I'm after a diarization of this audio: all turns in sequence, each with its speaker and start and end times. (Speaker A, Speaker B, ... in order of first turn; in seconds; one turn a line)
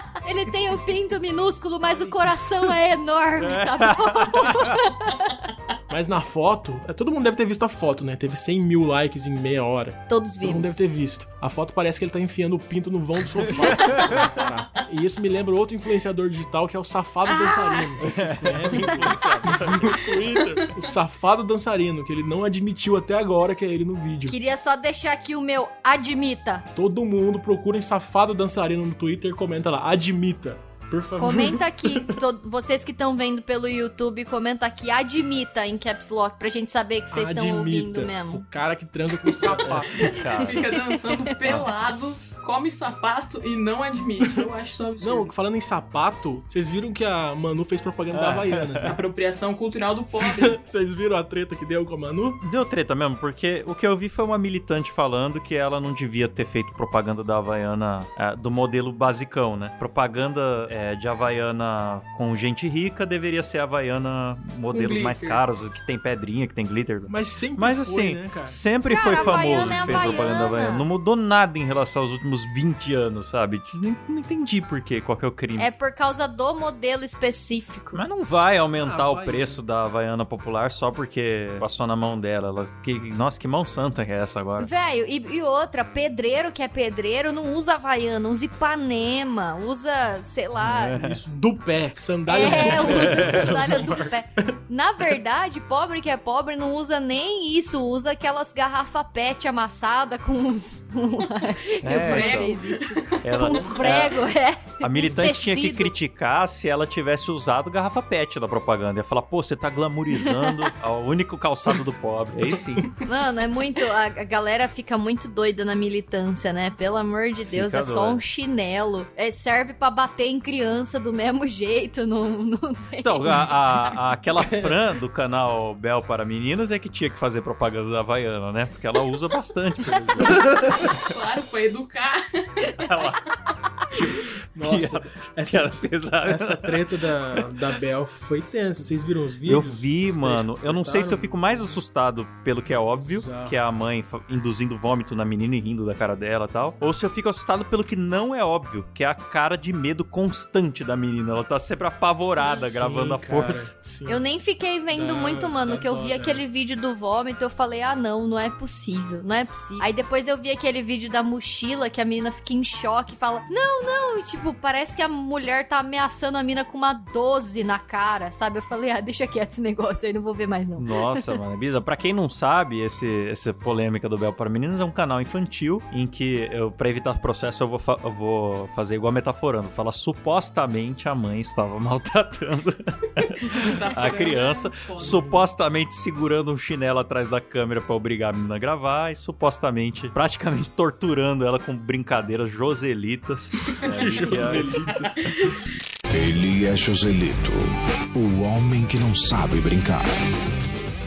Speaker A: 0.2-5.3
Speaker B: 3.4-4.8
Speaker C: 5.9-24.4
Speaker A: 10.1-10.8
Speaker B: 13.5-14.3
Speaker D: 17.2-17.9
Speaker B: 18.0-20.1
Speaker A: 24.3-26.6
Speaker C: 26.7-32.1
Speaker A: 31.2-38.4
Speaker C: 37.1-40.3
Speaker D: 39.5-45.3
Speaker B: 39.5-40.8
Speaker B: 41.4-42.4
Speaker C: 45.0-49.0
Speaker B: 48.1-48.9
Speaker D: 48.8-50.6
Speaker C: 50.1-52.4
Speaker B: 52.4-75.7
Speaker D: 64.7-65.4
Speaker C: 67.1-70.3
Speaker A: 68.8-70.8
Speaker A: 75.6-78.0
Speaker B: 77.9-84.7
Speaker C: 78.8-79.6
Speaker A: 84.6-91.0
Speaker B: 90.6-91.2
Speaker C: 90.9-94.5
Speaker A: 92.3-105.9
Speaker B: 92.3-93.6
Speaker B: 101.8-102.5
Speaker D: 101.9-103.5
Speaker B: 103.2-104.2
Speaker B: 104.8-112.9
Speaker A: 113.0-123.4
Speaker B: 117.5-118.2
Speaker B: 123.0-130.9
Speaker C: 124.4-124.8
Speaker D: 131.1-132.7
Speaker B: 132.8-133.2
Speaker B: 133.9-137.5
Speaker C: 134.5-141.3
Speaker B: 139.4-153.7
Speaker C: 143.0-143.6
Speaker C: 152.4-154.2
Speaker A: 154.1-171.3
Speaker C: 154.9-156.4
Speaker B: 170.8-194.8
Speaker D: 183.4-185.3
Speaker C: 185.0-185.3
Speaker D: 193.8-195.5
Speaker C: 193.9-195.3
Speaker E: 196.1-200.1